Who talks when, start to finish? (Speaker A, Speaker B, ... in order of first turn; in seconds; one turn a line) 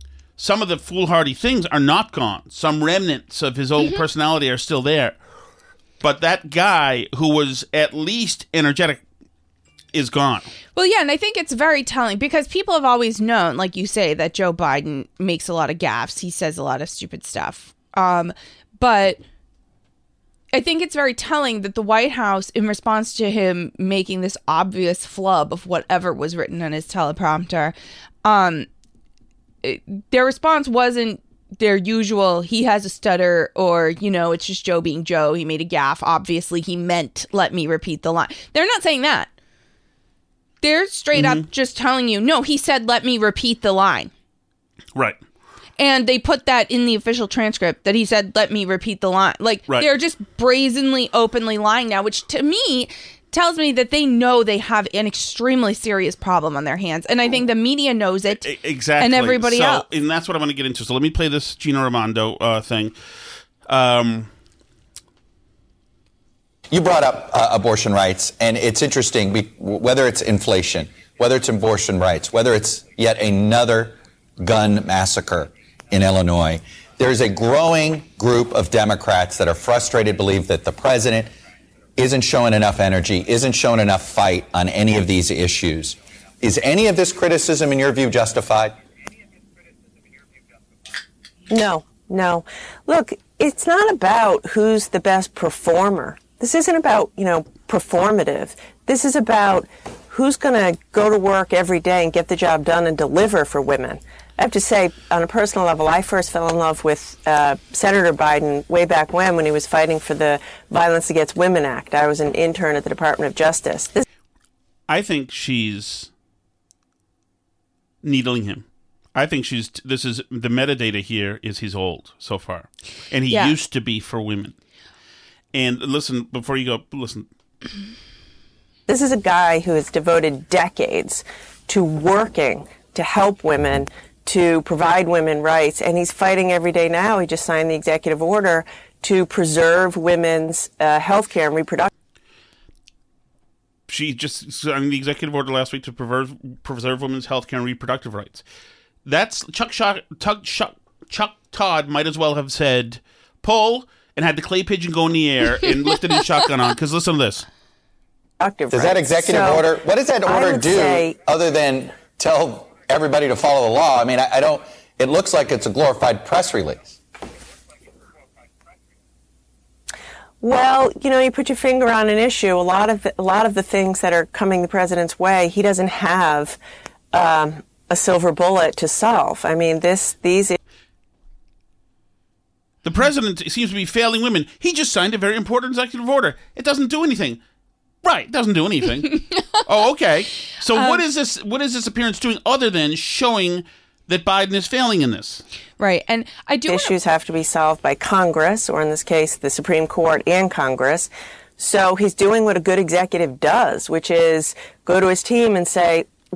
Speaker A: 0.4-5.2
Speaker A: 6.0-9.0
Speaker A: 9.9-10.5
Speaker B: 10.7-19.2
Speaker B: 20.5-27.7
Speaker B: 28.2-28.7
Speaker B: 29.6-39.3
Speaker B: 40.6-44.1
Speaker A: 41.1-41.5
Speaker B: 45.8-58.5
Speaker A: 58.4-62.9
Speaker B: 59.0-59.8
Speaker A: 63.7-64.3
Speaker C: 66.7-81.3
Speaker C: 82.0-88.8
Speaker D: 91.5-114.0
Speaker A: 114.9-116.1
Speaker A: 118.0-124.5
Speaker B: 123.3-123.5
Speaker A: 125.5-127.3
Speaker D: 128.9-141.9
Speaker A: 143.9-148.4
Speaker A: 149.0-157.5
Speaker D: 158.4-161.2
Speaker C: 158.7-167.0
Speaker D: 170.4-176.6
Speaker D: 177.1-180.6
Speaker A: 182.8-187.4
Speaker A: 188.0-195.4
Speaker B: 189.1-189.6
Speaker B: 190.7-191.0
Speaker B: 195.8-196.9
Speaker D: 196.7-206.1